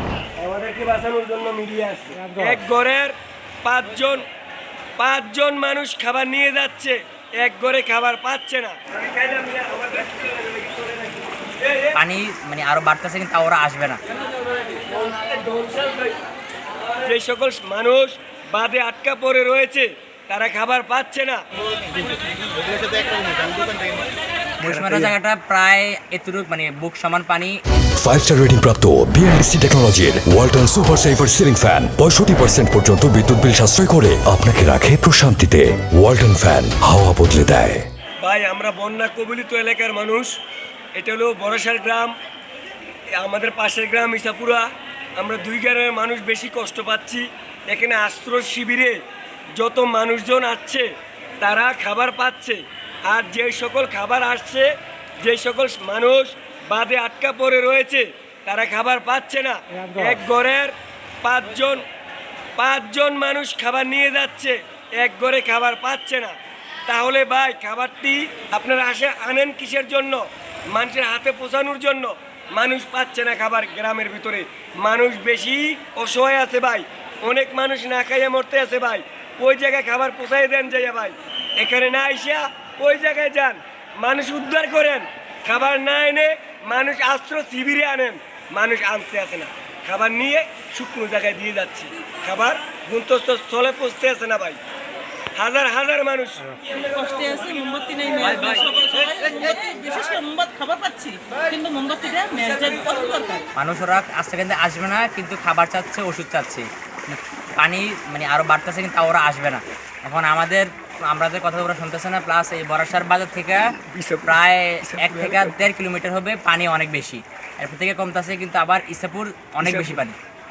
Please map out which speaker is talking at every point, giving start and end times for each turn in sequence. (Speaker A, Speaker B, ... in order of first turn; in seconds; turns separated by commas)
Speaker A: 0.4-4.2, Speaker A: 5.0-12.0, Speaker B: 11.9-14.0, Speaker A: 14.5-16.1, Speaker A: 16.9-21.4, Speaker C: 22.9-23.5, Speaker B: 24.6-27.6, Speaker A: 24.6-25.1, Speaker D: 28.0-37.9, Speaker A: 38.2-40.3, Speaker A: 41.0-42.1, Speaker A: 43.2-44.7, Speaker A: 45.2-49.0, Speaker A: 49.5-50.9, Speaker A: 51.4-61.9, Speaker C: 59.8-60.1, Speaker A: 62.5-66.3, Speaker A: 66.9-94.6, Speaker A: 95.4-96.6, Speaker C: 96.6-103.5, Speaker A: 98.2-98.9, Speaker B: 103.6-113.6, Speaker A: 113.9-115.6, Speaker B: 114.2-120.2, Speaker A: 119.6-120.0